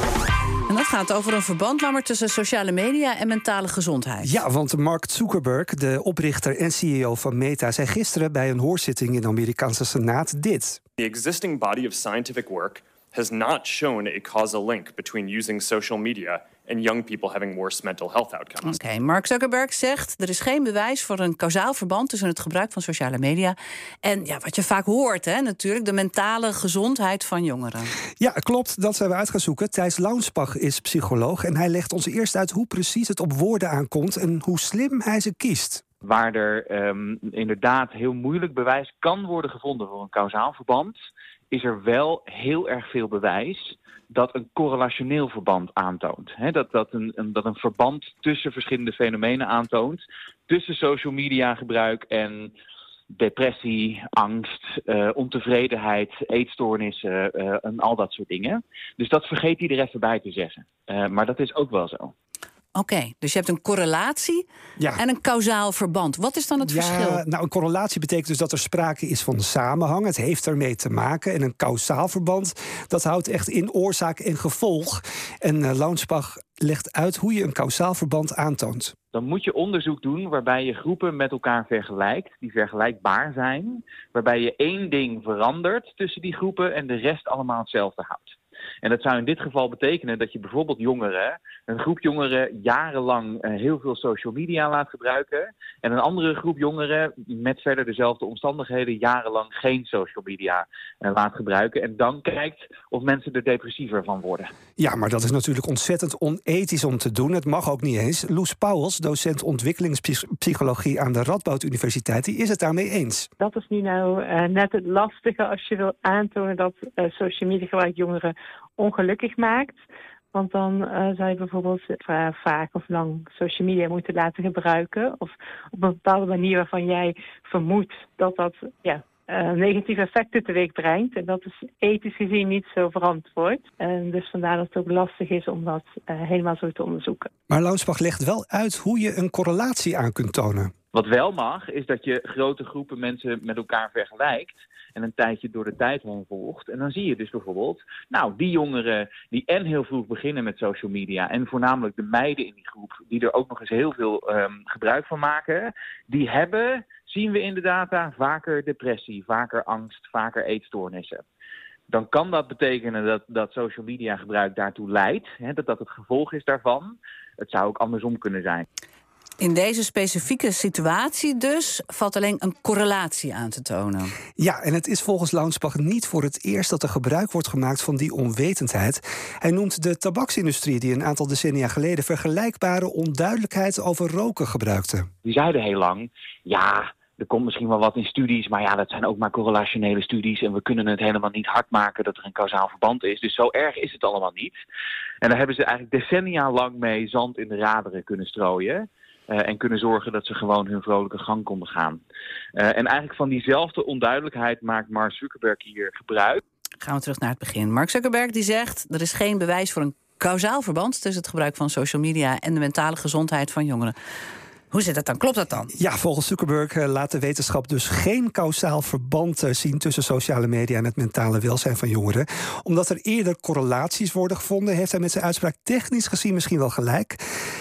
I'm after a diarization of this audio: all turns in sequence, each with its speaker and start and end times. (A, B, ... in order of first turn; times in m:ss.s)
0:00.7-0:04.4 A
0:04.2-0:10.8 B
0:11.0-0:18.8 C
0:18.6-0:27.9 A
0:28.2-0:35.8 B
0:36.0-0:41.0 D
0:41.5-0:52.5 D
0:53.1-1:02.1 D
1:02.8-1:04.4 A
1:05.0-1:07.2 A
1:06.6-1:18.9 B
1:19.1-1:44.5 D
1:44.8-1:53.3 B
1:53.4-1:59.8 E
2:00.3-2:17.3 E
2:17.5-2:20.7 B
2:20.9-2:41.2 D
2:41.9-2:48.6 D
2:49.4-2:54.1 A
2:54.4-3:05.1 B
3:05.2-3:14.6 D
3:15.2-3:22.0 D
3:22.6-3:26.4 D
3:26.8-3:33.9 A
3:34.7-3:35.7 A
3:35.7-3:47.2 B